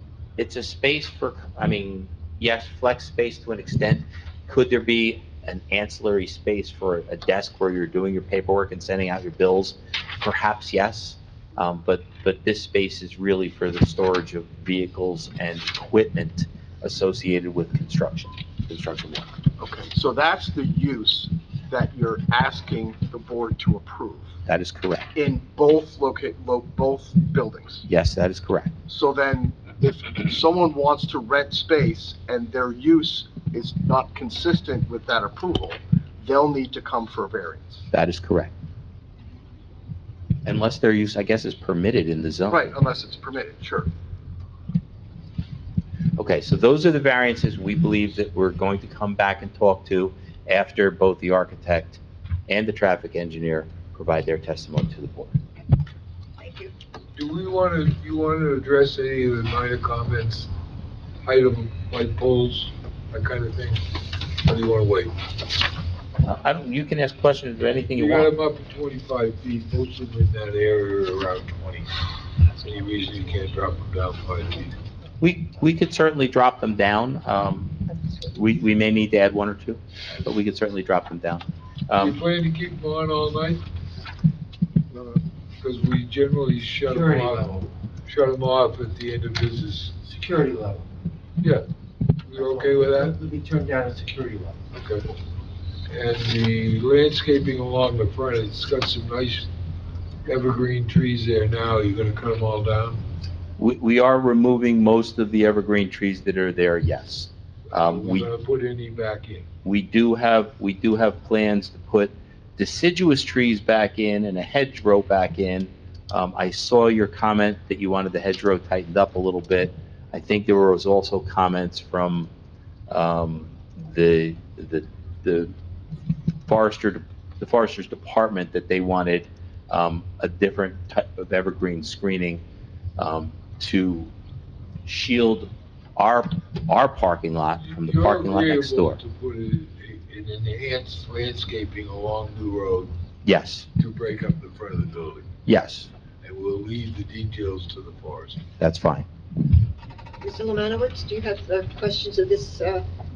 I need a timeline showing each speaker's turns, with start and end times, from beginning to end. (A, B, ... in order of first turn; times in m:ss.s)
0:00.4-0:19.3 A
0:19.6-0:24.3 B
0:24.5-0:25.1 A
0:25.1-0:27.8 B
0:27.9-0:28.7 A
0:28.9-0:37.8 B
0:37.9-0:38.5 A
0:40.4-0:42.7 A
0:42.5-0:43.9 B
0:46.2-0:55.4 A
0:56.4-0:56.7 C
0:57.2-1:00.5 D
1:01.2-1:05.1 D
1:06.2-1:08.3 A
1:07.9-1:11.9 D
1:12.6-1:14.7 D
1:15.2-1:22.2 A
1:22.0-1:23.6 D
1:24.9-1:25.2 B
1:25.6-1:29.9 D
1:26.9-1:27.7 E
1:30.0-1:30.8 E
1:31.4-1:31.6 D
1:32.2-1:33.2 D
1:32.4-1:34.6 E
1:34.7-1:35.1 D
1:35.9-1:39.5 D
1:40.2-1:43.0 D
1:43.6-1:48.3 A
1:47.7-1:49.5 D
1:49.6-2:02.3 A
2:02.9-2:05.5 A
2:06.5-2:12.4 A
2:13.0-2:14.1 A
2:14.8-2:19.0 A
2:17.6-2:22.9 D
2:23.2-2:23.7 A
2:23.8-2:25.3 D
2:25.4-2:25.9 A
2:26.2-2:28.4 D
2:28.6-2:29.1 A
2:30.2-2:32.8 C